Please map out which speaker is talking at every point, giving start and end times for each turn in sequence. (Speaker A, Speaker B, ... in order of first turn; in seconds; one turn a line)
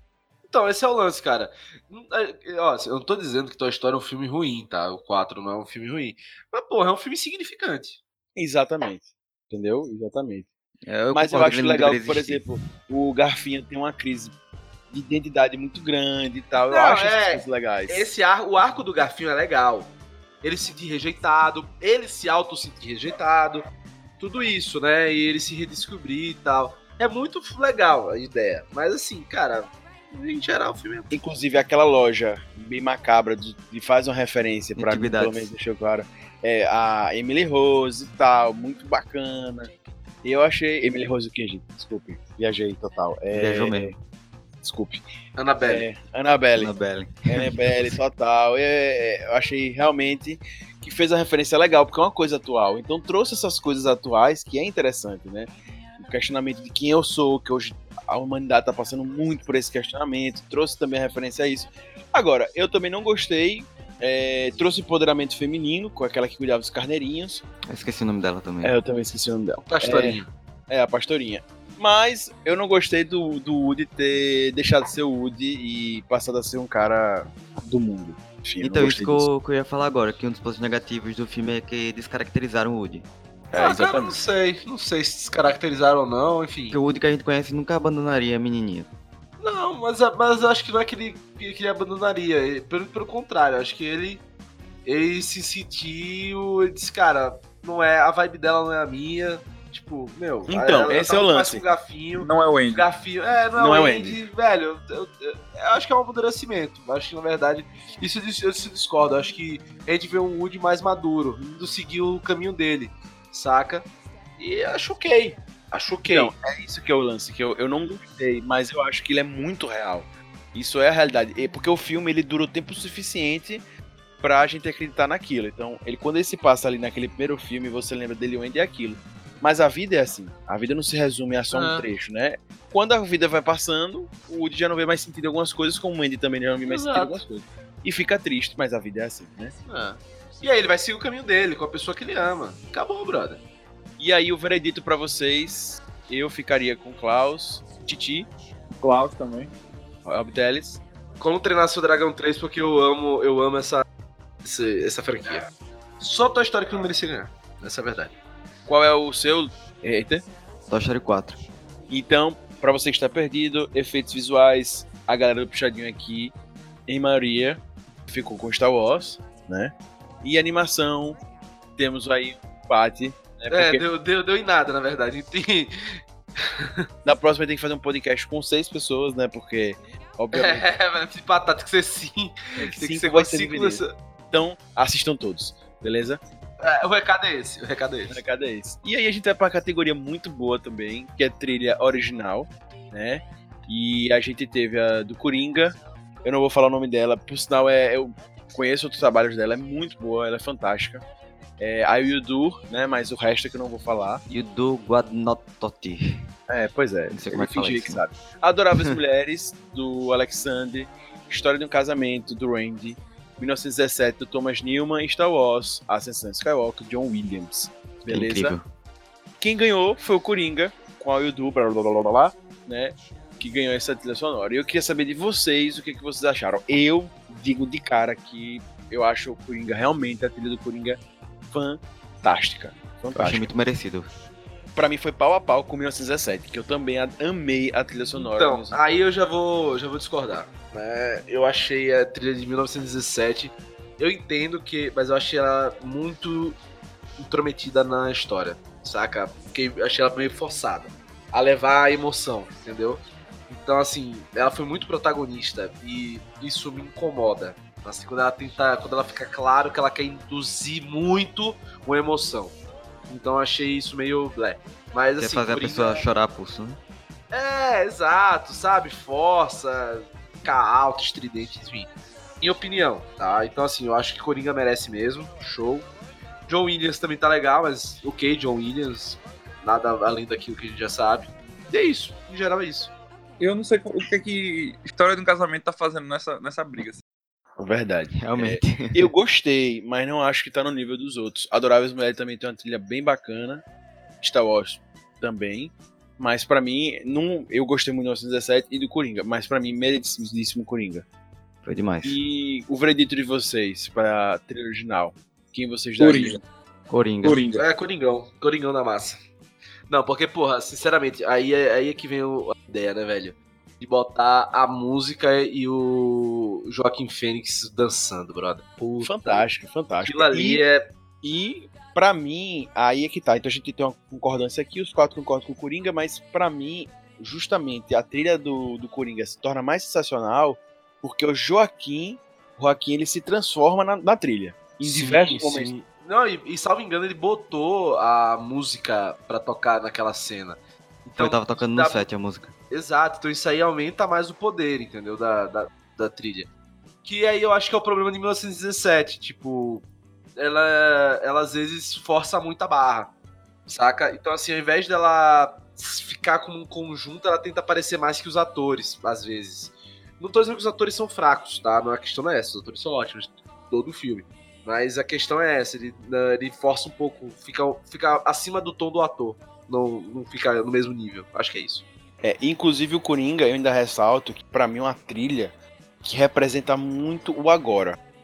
Speaker A: 0.5-8.0
Speaker B: 8.3-10.5
Speaker C: 10.8-12.5
Speaker B: 11.1-14.3
Speaker B: 14.9-18.0
Speaker A: 16.7-19.9
Speaker A: 20.4-23.6
Speaker A: 24.2-31.1
Speaker B: 31.1-39.7
Speaker C: 34.8-35.5
Speaker B: 40.2-43.9
Speaker C: 43.3-44.0
Speaker B: 44.6-45.0
Speaker A: 45.4-45.8
Speaker B: 45.7-46.7
Speaker C: 46.6-47.5
Speaker B: 47.3-67.4
Speaker C: 67.7-68.7
Speaker B: 68.6-79.3
Speaker A: 69.6-70.3
Speaker C: 78.6-83.0
Speaker B: 83.5-84.2
Speaker A: 83.5-86.8
Speaker C: 86.7-88.9
Speaker A: 89.4-94.2
Speaker A: 94.8-113.8
Speaker B: 100.5-101.7
Speaker D: 102.2-102.8
Speaker B: 103.6-104.2
Speaker A: 114.4-116.3
Speaker B: 116.0-123.6
Speaker B: 124.2-139.5
Speaker A: 131.5-131.8
Speaker A: 136.6-137.3
Speaker A: 139.7-143.4
Speaker B: 144.0-148.3
Speaker D: 148.8-149.5
Speaker B: 150.1-150.8
Speaker A: 151.2-153.8
Speaker A: 154.4-155.5
Speaker A: 156.0-158.1
Speaker B: 158.7-160.2
Speaker C: 160.7-161.4
Speaker B: 161.9-166.3
Speaker B: 166.9-171.2
Speaker B: 171.8-173.8
Speaker A: 173.5-176.8
Speaker B: 177.0-180.7
Speaker A: 180.3-183.9
Speaker B: 182.6-186.2
Speaker A: 186.6-188.2
Speaker B: 188.1-201.0
Speaker B: 201.6-204.2
Speaker C: 204.3-206.3
Speaker B: 206.5-218.6
Speaker C: 207.1-208.0
Speaker C: 208.7-209.0
Speaker C: 218.1-218.7
Speaker B: 219.4-233.5
Speaker C: 233.1-234.1
Speaker B: 234.8-238.8
Speaker A: 238.2-246.6
Speaker A: 247.2-262.5
Speaker A: 263.1-266.0
Speaker C: 265.2-266.8
Speaker A: 267.3-271.9
Speaker A: 272.4-275.9
Speaker A: 276.5-282.9
Speaker D: 283.4-287.0
Speaker B: 287.6-293.6
Speaker C: 288.1-289.1
Speaker B: 294.2-301.0
Speaker C: 301.6-302.2
Speaker B: 302.0-306.4
Speaker D: 306.0-306.4
Speaker C: 306.9-307.4
Speaker D: 307.2-307.6
Speaker A: 307.5-309.2
Speaker A: 309.9-319.4
Speaker B: 319.0-320.6
Speaker A: 320.0-320.9
Speaker B: 321.2-335.7
Speaker A: 334.8-342.0
Speaker C: 341.2-342.5
Speaker A: 342.7-346.5
Speaker A: 347.0-349.8
Speaker A: 350.4-353.1
Speaker A: 353.7-371.8
Speaker B: 372.2-375.5
Speaker B: 376.0-378.0